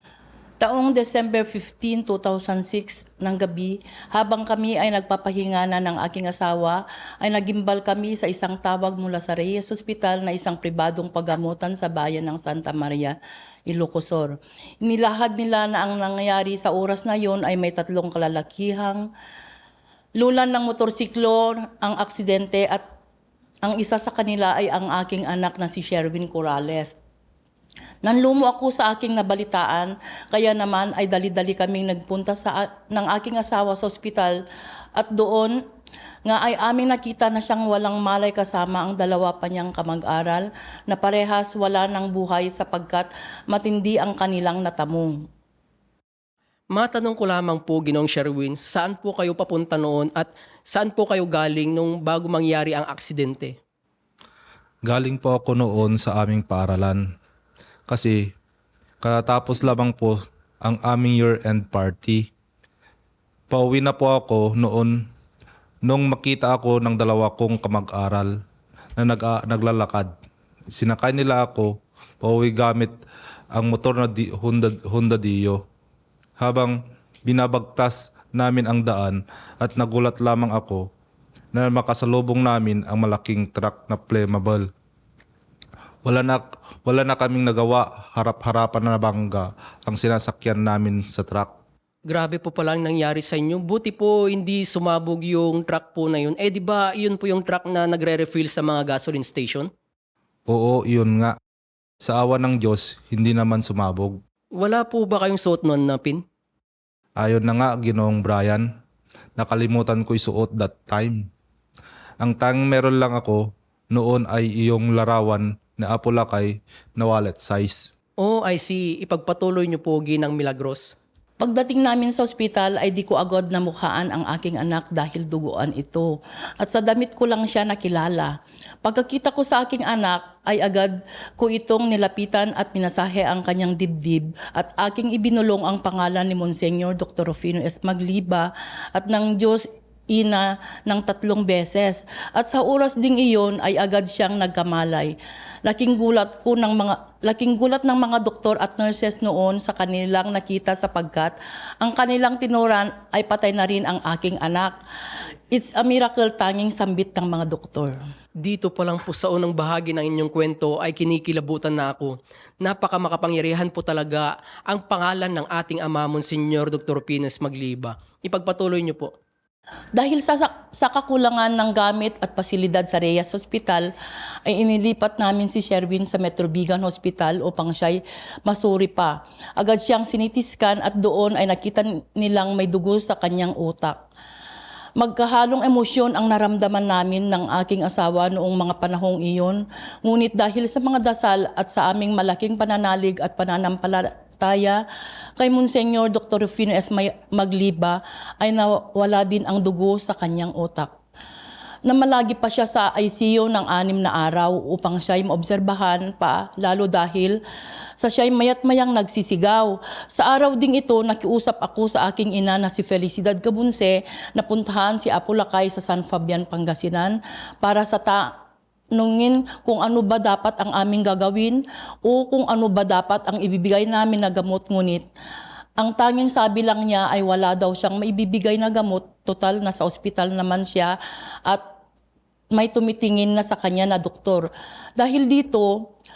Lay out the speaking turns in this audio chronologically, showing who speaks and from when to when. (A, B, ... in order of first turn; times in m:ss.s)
0:00.6-0:13.2 A
0:13.7-0:19.1 A
0:20.2-0:22.8 A
0:23.6-0:27.0 A
0:28.0-0:34.4 A
0:35.0-0:35.6 A
0:36.2-0:45.2 A
0:46.7-0:53.6 B
0:54.8-0:57.1 C
0:57.9-0:58.3 C
0:59.0-1:02.3 C
1:03.5-1:05.0 C
1:05.8-1:08.3 C
1:09.0-1:10.1 C
1:10.8-1:12.9 C
1:13.5-1:15.6 C
1:16.4-1:20.9 C
1:21.5-1:24.7 C
1:26.0-1:31.5 C
1:32.1-1:39.7 B
1:40.5-1:41.4 C
1:42.0-1:44.2 C
1:44.6-1:46.2 B
1:47.2-1:48.7 C
1:49.4-1:51.3 C
1:52.2-1:57.9 C
1:58.2-2:00.9 B
2:01.4-2:34.8 A
2:35.5-2:38.0 A
2:38.4-2:49.1 B
2:49.9-2:53.9 A
2:54.4-3:04.0 A
3:05.0-3:14.8 A
3:15.4-3:20.9 A
3:21.8-3:27.4 A
3:28.0-3:38.3 A
3:38.9-3:45.0 A
3:45.8-3:51.0 A
3:52.5-3:55.7 A